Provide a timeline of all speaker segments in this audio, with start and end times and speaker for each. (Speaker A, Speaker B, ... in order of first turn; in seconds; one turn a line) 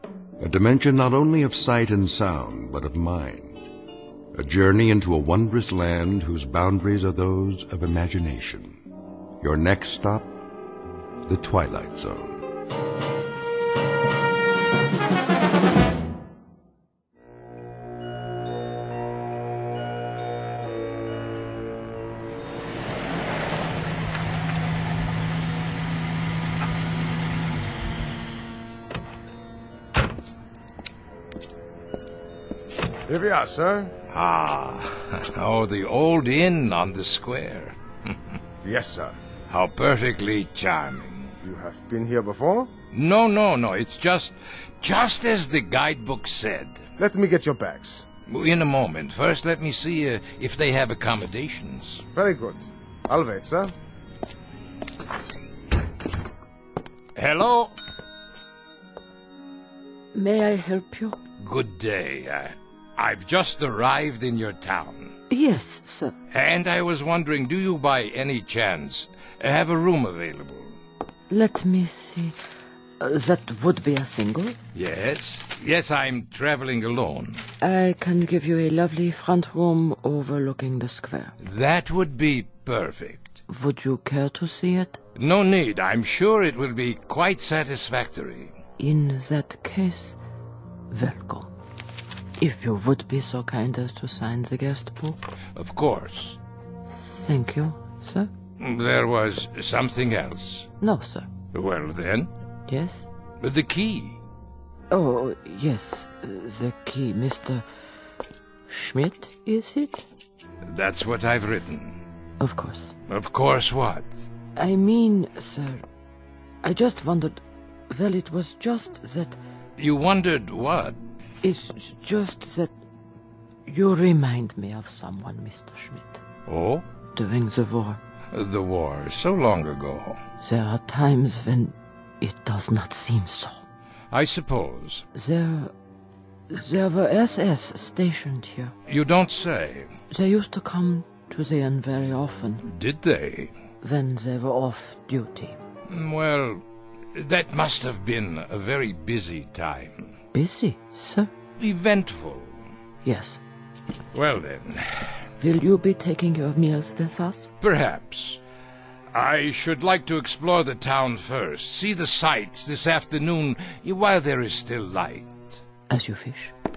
Speaker A: 0.4-3.6
Speaker A: 4.3-8.8
Speaker A: 9.4-10.3
Speaker A: 11.2-12.4
Speaker B: 33.1-33.9
Speaker C: 34.1-38.2
Speaker B: 38.6-39.2
Speaker C: 39.5-41.3
Speaker B: 41.4-42.7
Speaker C: 42.9-46.9
Speaker B: 47.0-48.1
Speaker C: 48.3-52.0
Speaker B: 52.1-53.7
Speaker C: 57.2-57.7
Speaker D: 60.1-61.2
Speaker C: 61.4-65.2
Speaker D: 65.3-66.1
Speaker C: 66.3-70.8
Speaker D: 71.3-72.4
Speaker D: 73.0-74.6
Speaker C: 74.7-77.5
Speaker D: 77.6-81.3
Speaker C: 81.4-83.4
Speaker D: 83.5-85.0
Speaker C: 85.2-88.5
Speaker D: 88.8-90.2
Speaker D: 90.9-91.5
Speaker D: 92.4-95.3
Speaker C: 95.5-96.4
Speaker D: 96.9-98.3
Speaker C: 98.6-100.7
Speaker D: 100.8-101.3
Speaker C: 101.5-102.3
Speaker D: 102.7-103.1
Speaker C: 103.4-104.2
Speaker D: 104.9-107.7
Speaker D: 108.7-110.0
Speaker C: 110.7-112.0
Speaker D: 112.4-112.9
Speaker C: 113.1-114.1
Speaker D: 114.6-115.8
Speaker D: 116.6-119.4
Speaker C: 119.8-121.0
Speaker D: 121.4-122.7
Speaker D: 123.7-126.2
Speaker C: 126.5-126.8
Speaker D: 127.2-128.0
Speaker C: 128.3-130.2
Speaker D: 130.4-133.7
Speaker C: 134.1-135.1
Speaker D: 135.2-135.7
Speaker D: 136.5-138.7
Speaker C: 138.9-140.0
Speaker D: 140.1-142.6
Speaker C: 142.7-143.5
Speaker D: 143.8-145.6
Speaker C: 145.9-146.6
Speaker C: 147.2-150.2
Speaker D: 150.3-151.3
Speaker C: 151.6-152.6
Speaker D: 153.1-153.4
Speaker C: 154.1-155.2
Speaker D: 155.4-157.5
Speaker C: 157.6-158.4
Speaker C: 159.1-165.6
Speaker D: 165.9-166.5